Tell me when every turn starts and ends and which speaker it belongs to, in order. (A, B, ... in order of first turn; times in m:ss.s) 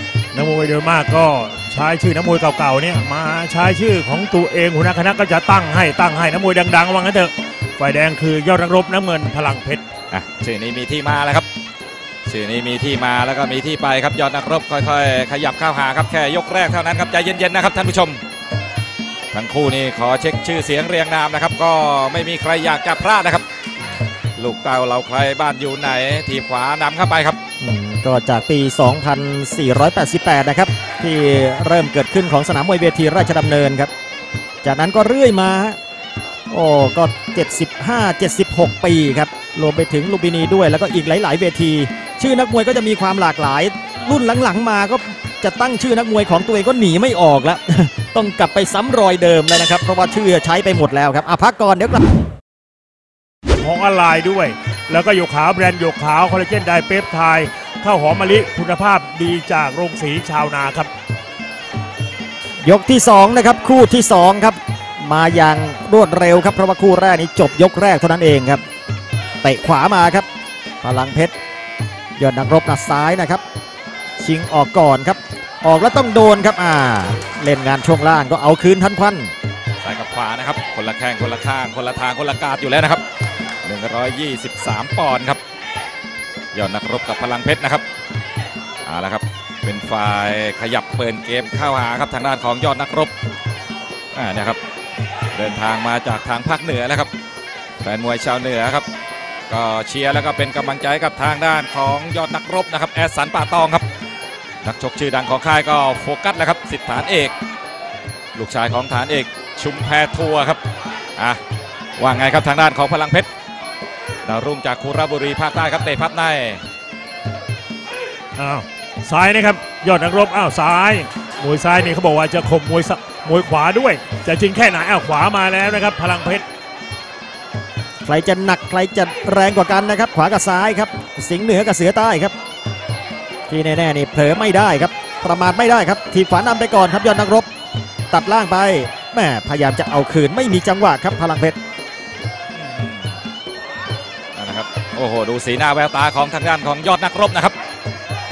0:00.3-0:09.8 A
0:10.1-0:11.5 B
0:12.3-0:18.2 B
0:19.3-0:23.4 B
0:24.4-0:27.4 B
0:27.6-0:33.9 C
0:34.6-0:35.8 C
0:36.5-0:52.1 C
0:53.6-1:00.9 A
1:02.6-1:08.6 C
1:09.4-1:10.3 C
1:10.8-1:11.3 C
1:12.2-1:13.4 C
1:14.2-1:19.3 C
1:19.8-1:23.0 B
1:23.6-1:25.4 B
1:26.5-1:27.8 B
1:28.8-1:33.1 B
1:34.1-1:34.6 B
1:35.3-1:37.1 B
1:37.8-1:38.8 B
1:39.5-1:43.8 B
1:44.6-1:47.3 B
1:48.4-1:50.6 B
1:52.0-1:53.3 B
1:54.2-1:56.6 B
1:58.4-2:06.4 A
2:08.0-2:12.3 C
2:13.5-2:17.5 C
2:18.1-2:21.6 C
2:22.6-2:23.2 B
2:24.4-2:27.6 B